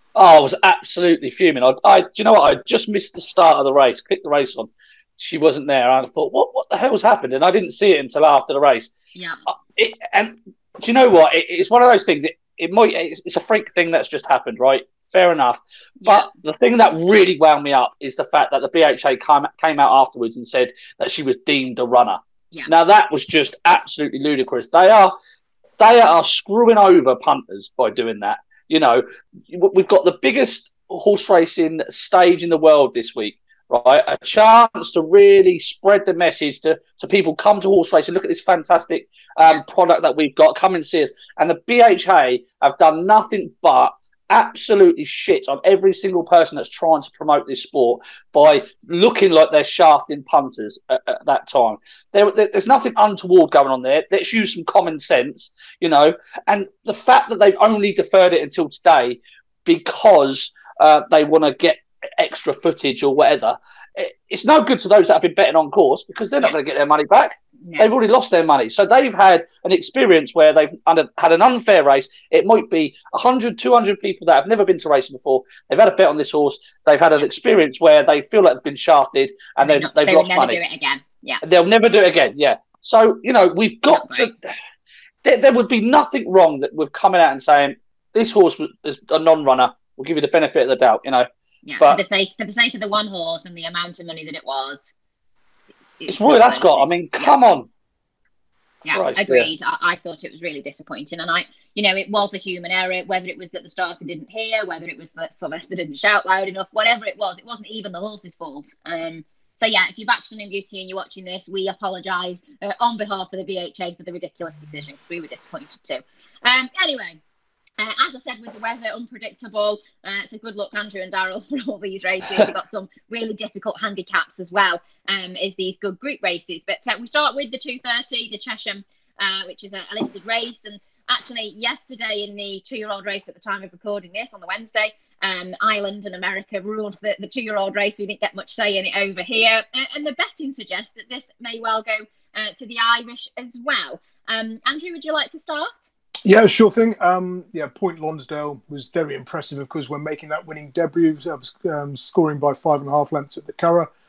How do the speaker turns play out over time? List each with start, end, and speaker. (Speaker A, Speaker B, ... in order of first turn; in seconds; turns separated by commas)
Speaker A: 0.1-8.9, Speaker B: 9.1-9.4, Speaker A: 9.8-25.1, Speaker B: 16.0-16.3, Speaker A: 25.8-80.6, Speaker B: 67.6-67.9, Speaker B: 79.6-81.4, Speaker A: 81.4-84.3, Speaker B: 83.9-84.3, Speaker A: 85.2-91.3, Speaker B: 91.7-94.9, Speaker B: 96.0-97.3, Speaker A: 96.1-97.7, Speaker B: 98.8-117.2, Speaker A: 98.9-99.5, Speaker B: 117.8-145.9, Speaker C: 146.2-153.9